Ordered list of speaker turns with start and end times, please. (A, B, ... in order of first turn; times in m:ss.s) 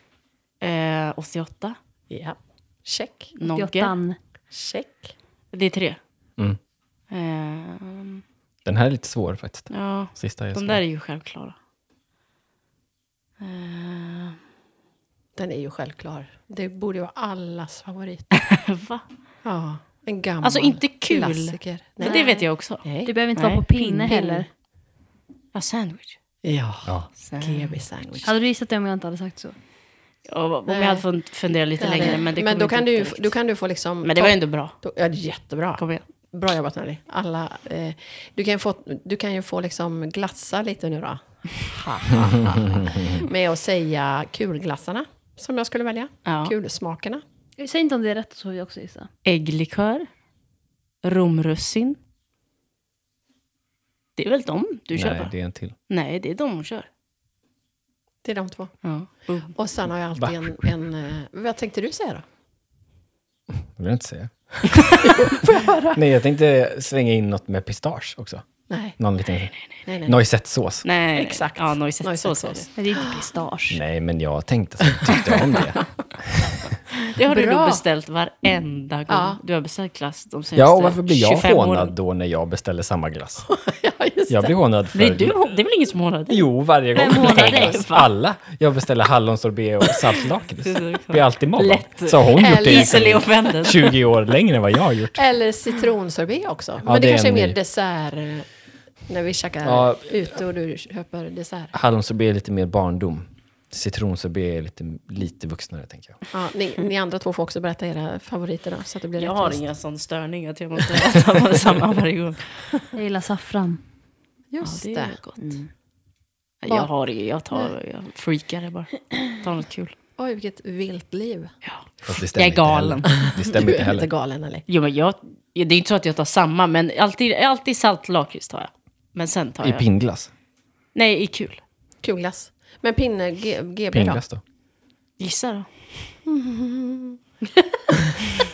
0:00.6-0:01.8 A
0:02.1-0:03.3 B
0:03.4-0:03.9 A
0:03.4-0:04.2 C
0:04.5-0:05.1 B
0:05.5-0:06.0 A
0:07.1-0:08.2 A
0:08.6-0:10.8 D
0:09.7-0:11.5 A
0:13.4-0:14.4 A
0:15.4-0:18.3 B
0:18.4-0:19.0 A
0:19.4-0:23.1 B
0:20.4-0:24.3 A
0:22.0-0:22.5 C
0:23.0-0:24.5 C
0:24.1-0:24.4 B
0:25.5-0:26.2 A
0:26.4-0:28.3 B
0:27.2-0:27.8 A
0:28.2-0:29.5 C
0:30.3-0:33.4 A
0:30.7-0:31.0 B
0:31.8-0:47.2 B
0:34.0-0:34.8 A
0:35.8-0:36.0 A
0:46.2-0:46.5 A
0:47.6-0:49.1 C
0:49.2-0:50.1 A
0:51.0-0:52.0 A
0:54.2-0:55.3 A
0:54.9-0:55.7 D
0:55.9-0:56.9 A
0:58.2-0:58.7 B
0:58.8-0:59.5 A
0:59.5-1:02.2 B
1:00.2-1:00.6 D
1:03.5-1:04.8 D
1:05.0-1:06.0 B
1:05.9-1:08.4 D
1:08.7-1:09.0 B
1:09.0-1:09.5 D
1:09.8-1:10.2 B
1:10.0-1:10.8 D
1:10.8-1:12.7 A
1:11.1-1:13.2 B
1:12.8-1:13.8 C
1:13.7-1:16.6 D
1:16.9-1:21.9 A
1:17.2-1:17.8 B
1:19.1-1:19.4 B
1:20.5-1:23.4 D
1:23.4-1:24.5 B
1:24.3-1:25.4 D
1:24.9-1:26.5 A
1:26.3-1:35.2 D
1:26.9-1:27.8 C
1:27.1-1:28.1 A
1:30.6-1:34.0 A
1:32.4-1:33.2 B
1:35.1-1:38.5 B
1:36.8-1:37.6 D
1:39.0-1:41.7 B
1:39.6-1:40.2 D
1:41.7-1:46.2 D
1:46.3-1:49.6 B
1:49.2-1:52.6 A
1:52.9-1:53.8 C
1:54.5-1:55.2 B
1:54.6-1:55.6 A
1:55.4-1:55.7 C
1:56.6-1:59.9 A
1:56.6-1:56.9 B
2:00.2-2:01.5 B
2:01.6-2:03.3 A
2:02.0-2:04.1 D
2:03.3-2:04.6 B
2:04.7-2:09.8 A
2:09.6-2:10.3 D
2:10.9-2:11.6 A
2:12.0-2:14.2 B
2:13.9-2:14.4 D
2:15.2-2:16.2 A
2:16.2-2:17.2 B